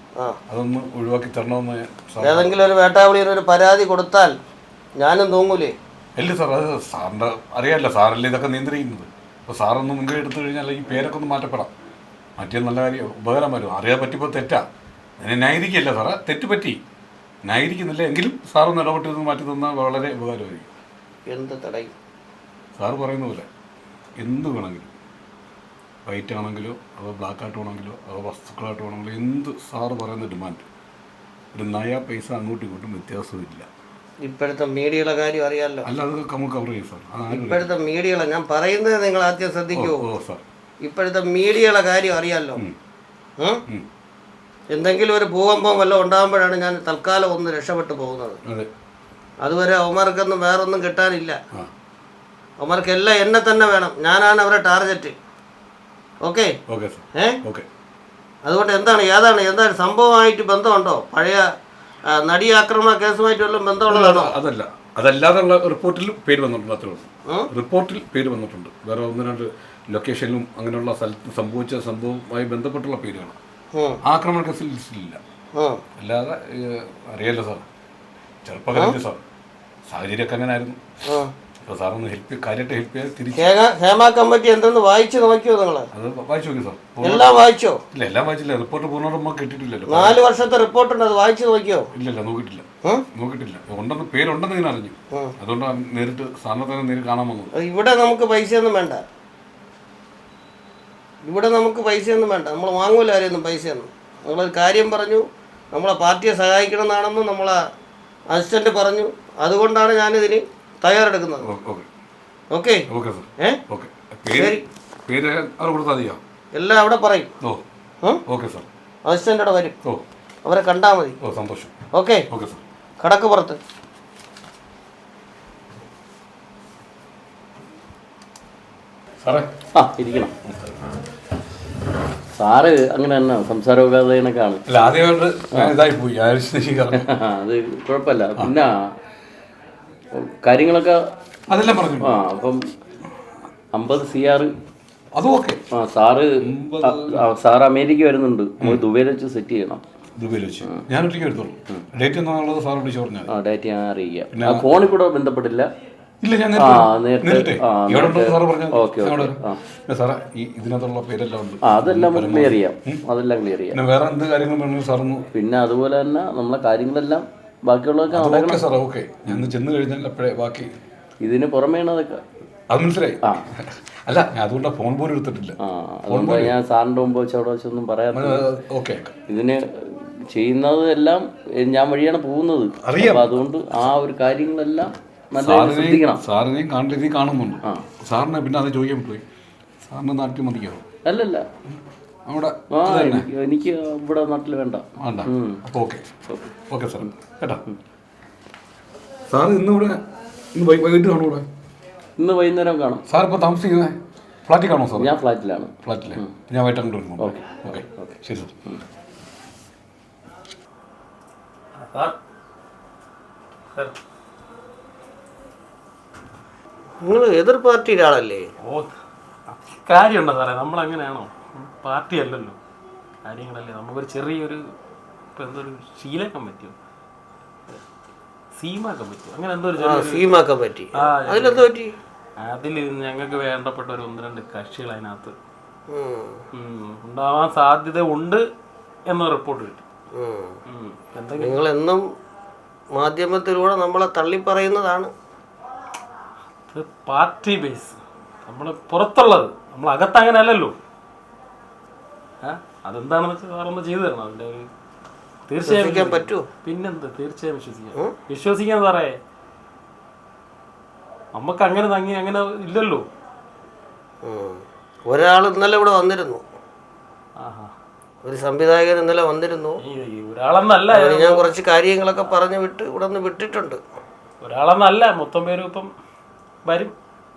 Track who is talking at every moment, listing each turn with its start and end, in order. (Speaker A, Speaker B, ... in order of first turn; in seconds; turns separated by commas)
Speaker A: 0.5-2.5, Speaker B: 2.2-4.3, Speaker B: 5.0-5.7, Speaker A: 6.2-11.7, Speaker A: 12.4-14.7, Speaker A: 15.2-16.8, Speaker A: 17.4-20.7, Speaker B: 21.3-21.9, Speaker A: 22.8-23.5, Speaker A: 24.2-24.9, Speaker A: 26.0-30.6, Speaker A: 31.5-33.7, Speaker B: 34.2-35.9, Speaker A: 35.8-37.7, Speaker B: 37.3-40.0, Speaker A: 39.7-40.4, Speaker B: 40.8-42.6, Speaker B: 44.7-48.4, Speaker B: 49.4-51.4, Speaker B: 52.6-55.1, Speaker B: 56.2-56.5, Speaker A: 56.7-57.6, Speaker B: 58.5-61.4, Speaker B: 62.1-64.3, Speaker A: 63.9-73.4, Speaker B: 73.7-74.0, Speaker A: 74.0-75.2, Speaker B: 75.5-75.8, Speaker A: 76.0-77.6, Speaker A: 78.4-79.2, Speaker A: 79.9-80.8, Speaker A: 81.7-83.5, Speaker B: 83.3-85.9, Speaker A: 85.9-90.2, Speaker B: 87.0-87.8, Speaker B: 89.9-91.9, Speaker A: 91.9-97.5, Speaker B: 97.5-99.0, Speaker B: 101.2-107.6, Speaker B: 108.3-111.4, Speaker A: 111.4-111.9, Speaker B: 112.5-112.8, Speaker A: 112.9-116.2, Speaker B: 114.3-114.6, Speaker B: 116.5-117.3, Speaker A: 118.2-118.7, Speaker B: 119.0-119.7, Speaker B: 120.4-121.2, Speaker A: 121.2-121.7, Speaker B: 121.9-122.2, Speaker A: 122.3-122.6, Speaker B: 123.0-123.6, Speaker A: 129.2-129.5, Speaker C: 129.7-130.3, Speaker A: 130.4-130.9, Speaker C: 132.3-134.6, Speaker A: 134.7-137.1, Speaker C: 136.9-138.8, Speaker C: 140.1-141.0, Speaker A: 141.5-142.2, Speaker C: 142.0-142.6, Speaker C: 143.7-144.5, Speaker A: 145.1-145.6, Speaker C: 145.7-149.8, Speaker A: 146.4-147.3, Speaker A: 150.1-153.3, Speaker C: 153.3-155.7, Speaker A: 154.3-154.7, Speaker A: 156.2-163.0, Speaker C: 156.6-159.6, Speaker C: 161.6-163.8, Speaker A: 163.7-165.3, Speaker C: 165.3-168.7, Speaker A: 168.1-170.7, Speaker C: 171.2-172.2, Speaker A: 172.7-175.6, Speaker C: 175.6-178.4, Speaker A: 176.1-176.6, Speaker A: 178.1-179.1, Speaker C: 179.3-186.2, Speaker A: 182.8-183.4, Speaker A: 185.4-189.2, Speaker A: 189.8-190.8, Speaker C: 191.0-191.5, Speaker A: 192.2-193.3, Speaker C: 192.7-195.6, Speaker A: 195.0-196.0, Speaker C: 196.3-196.5, Speaker A: 196.7-197.6, Speaker A: 199.3-200.0, Speaker A: 200.5-201.5, Speaker C: 202.2-203.0, Speaker A: 203.1-205.2, Speaker C: 204.9-206.3, Speaker A: 205.8-208.5, Speaker C: 207.2-208.8, Speaker D: 211.8-212.2, Speaker B: 217.0-218.5, Speaker D: 218.6-218.9, Speaker D: 219.5-222.6, Speaker D: 223.2-224.7, Speaker D: 225.3-226.8, Speaker D: 228.6-230.2, Speaker B: 229.8-231.9, Speaker D: 230.9-231.7, Speaker D: 232.4-235.3, Speaker B: 235.9-236.4, Speaker D: 236.5-238.4, Speaker D: 239.1-239.8, Speaker B: 240.1-240.6, Speaker D: 240.7-241.6, Speaker B: 241.4-242.0, Speaker B: 242.9-245.1, Speaker D: 246.7-250.8, Speaker D: 252.4-254.7, Speaker D: 255.5-259.2, Speaker B: 255.6-256.4, Speaker D: 261.3-263.1, Speaker B: 264.2-266.4, Speaker D: 267.4-267.7, Speaker B: 268.2-269.8, Speaker D: 269.8-271.5, Speaker B: 270.9-273.8, Speaker D: 274.4-275.9, Speaker D: 276.6-276.9